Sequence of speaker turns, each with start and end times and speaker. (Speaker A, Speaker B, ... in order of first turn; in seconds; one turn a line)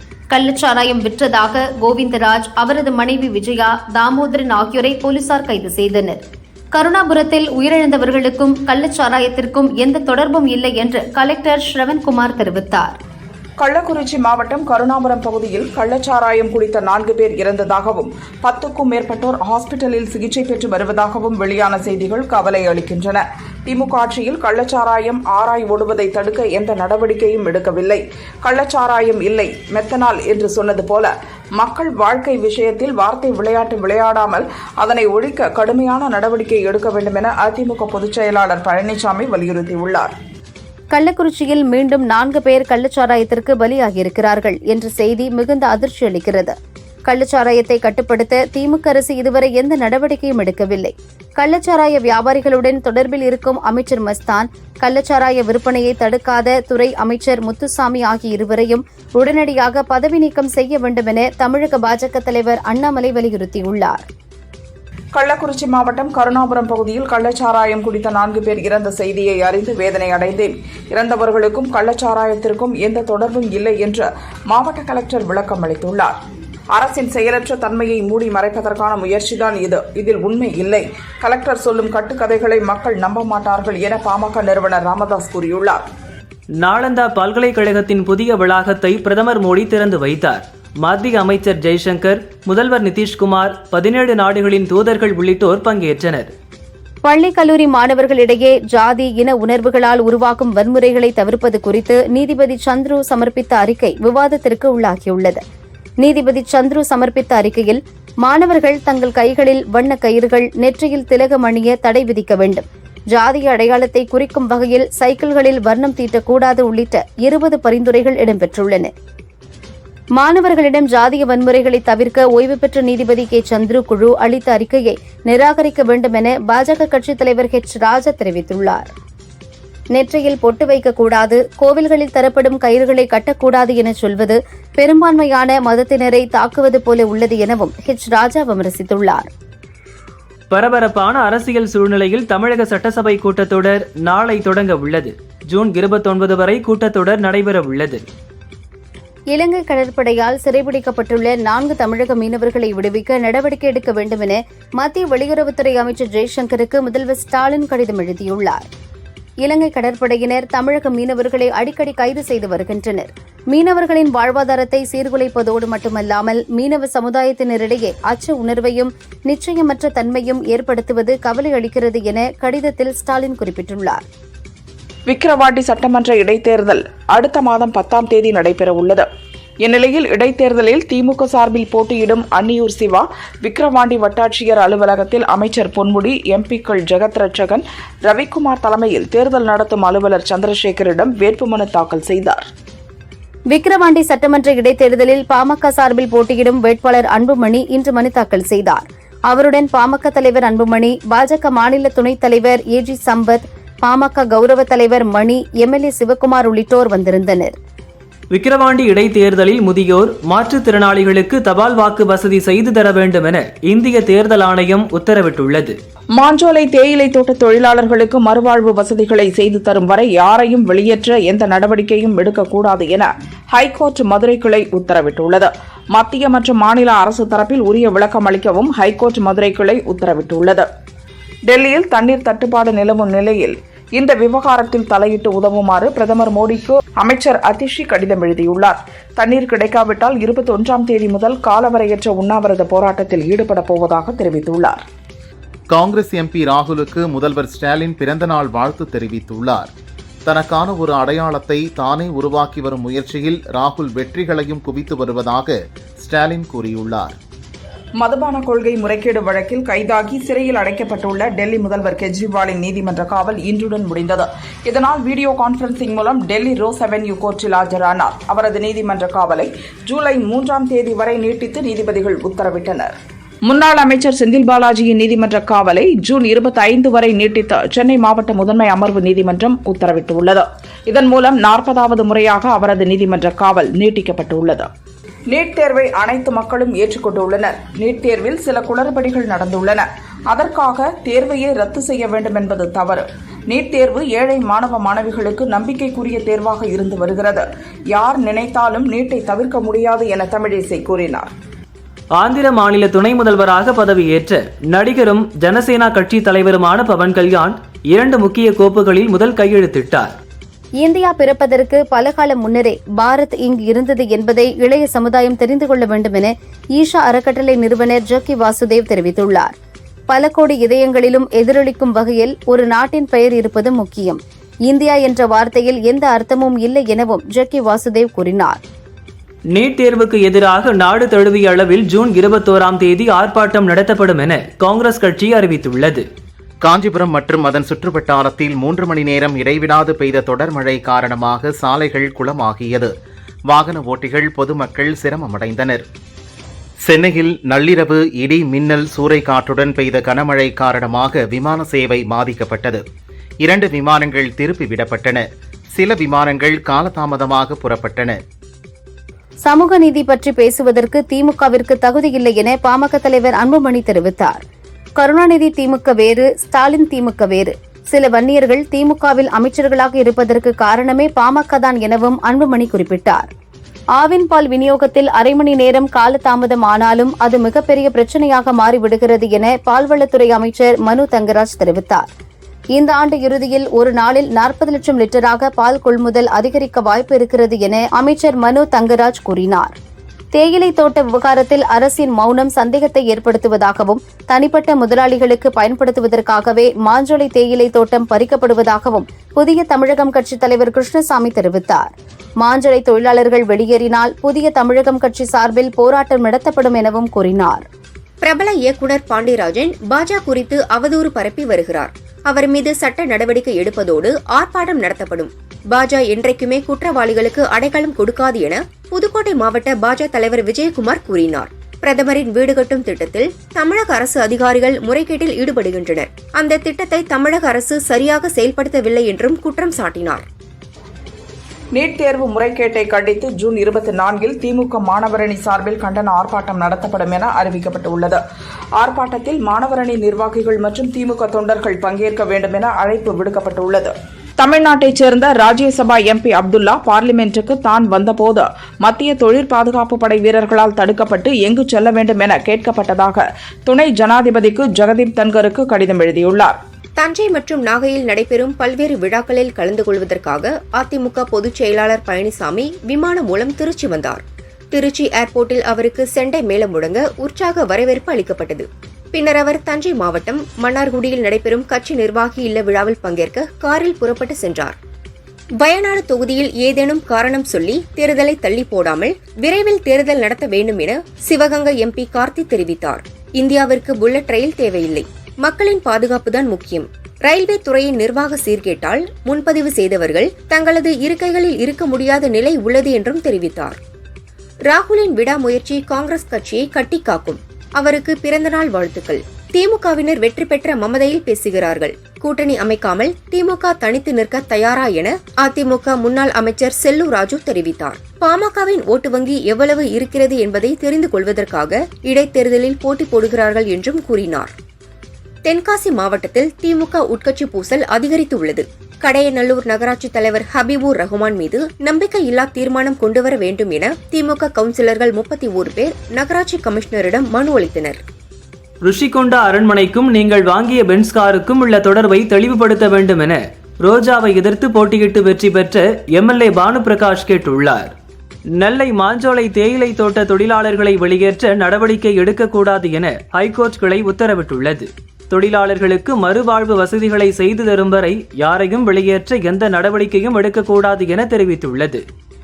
Speaker A: 0.3-6.2
Speaker A: 6.7-12.9
Speaker B: 13.6-40.1
Speaker A: 40.9-46.5
Speaker A: 47.0-64.0
Speaker B: 65.1-76.1
Speaker B: 76.7-85.8
Speaker C: 86.6-96.3
Speaker A: 97.0-105.4
Speaker A: 106.0-118.9
Speaker A: 120.2-128.9
Speaker A: 129.9-139.3
Speaker C: 140.5-148.0
Speaker A: 149.3-158.7
Speaker A: 159.4-174.0
Speaker B: 175.1-179.1
Speaker B: 179.6-192.5
Speaker A: 193.5-207.6
Speaker C: 208.3-215.8
Speaker B: 216.2-230.7
Speaker B: 231.5-244.8
Speaker D: 245.7-249.7
Speaker D: 250.2-257.2
Speaker B: 258.0-272.9
Speaker B: 273.4-284.7
Speaker B: 285.3-301.3
Speaker C: 302.2-310.2
Speaker A: 310.8-319.5
Speaker A: 320.1-328.6
Speaker C: 329.5-336.0
Speaker D: 336.6-342.9
Speaker D: 343.5-345.8
Speaker D: 346.8-352.8
Speaker D: 353.4-358.2
Speaker A: 359.4-364.4
Speaker A: 365.0-373.3
Speaker A: 373.9-382.1
Speaker A: 382.7-389.7
Speaker A: 390.3-407.6
Speaker E: 408.2-430.2
Speaker B: 431.7-438.2
Speaker B: 438.8-456.6
Speaker E: 457.0-474.8
Speaker E: 475.6-493.8
Speaker E: 494.7-514.5
Speaker E: 515.4-528.0
Speaker C: 528.8-537.9
Speaker C: 538.5-552.0